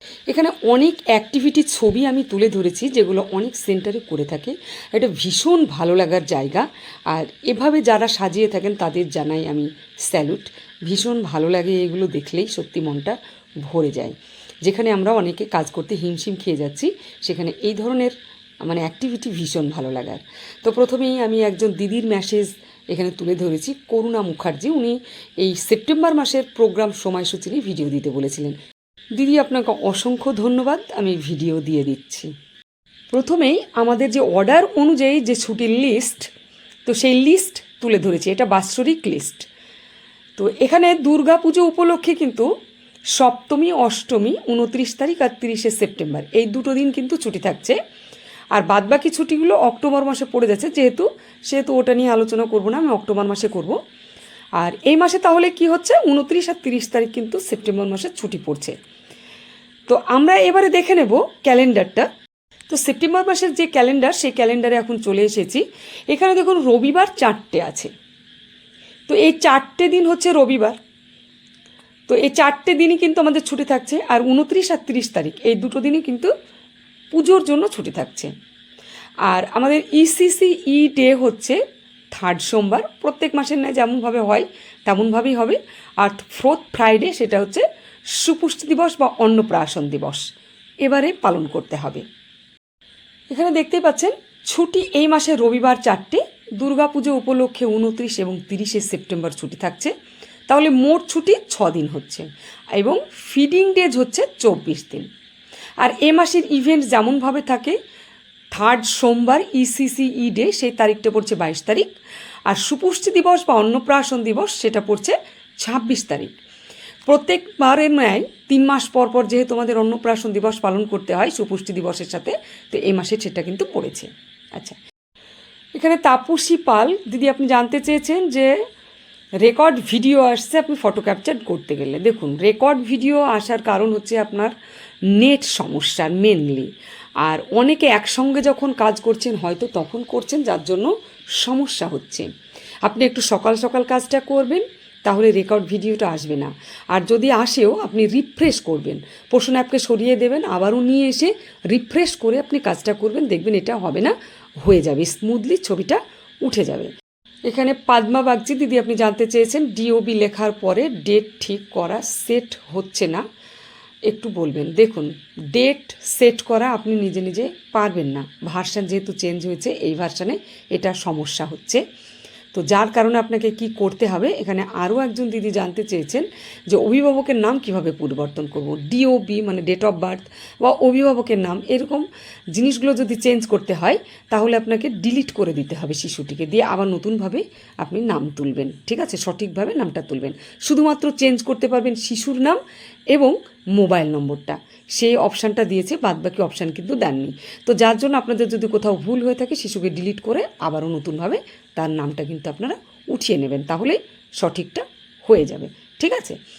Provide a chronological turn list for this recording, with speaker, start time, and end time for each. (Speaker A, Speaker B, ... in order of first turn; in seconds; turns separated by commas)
Speaker A: 0.3-28.6, Speaker A: 29.2-32.3, Speaker A: 33.1-36.3, Speaker A: 36.9-39.5, Speaker A: 40.4-42.5, Speaker A: 43.2-47.8, Speaker A: 48.5-53.8, Speaker A: 54.6-58.8, Speaker A: 59.9-62.1, Speaker A: 62.7-67.9, Speaker A: 69.1-70.8, Speaker A: 72.1-76.3, Speaker A: 77.1-78.3, Speaker A: 79.3-81.6, Speaker A: 82.1-87.6, Speaker A: 88.2-90.3, Speaker A: 90.8-92.0, Speaker A: 93.3-99.9, Speaker A: 100.5-105.1, Speaker A: 105.8-107.8, Speaker A: 108.5-111.9, Speaker A: 112.5-116.3, Speaker A: 117.1-124.8, Speaker A: 125.8-128.5, Speaker A: 129.4-134.5, Speaker A: 135.2-136.7, Speaker A: 137.2-140.9, Speaker A: 141.4-142.3, Speaker A: 142.8-156.9, Speaker A: 157.5-163.2, Speaker A: 164.1-171.8, Speaker A: 172.5-192.6, Speaker A: 193.1-206.4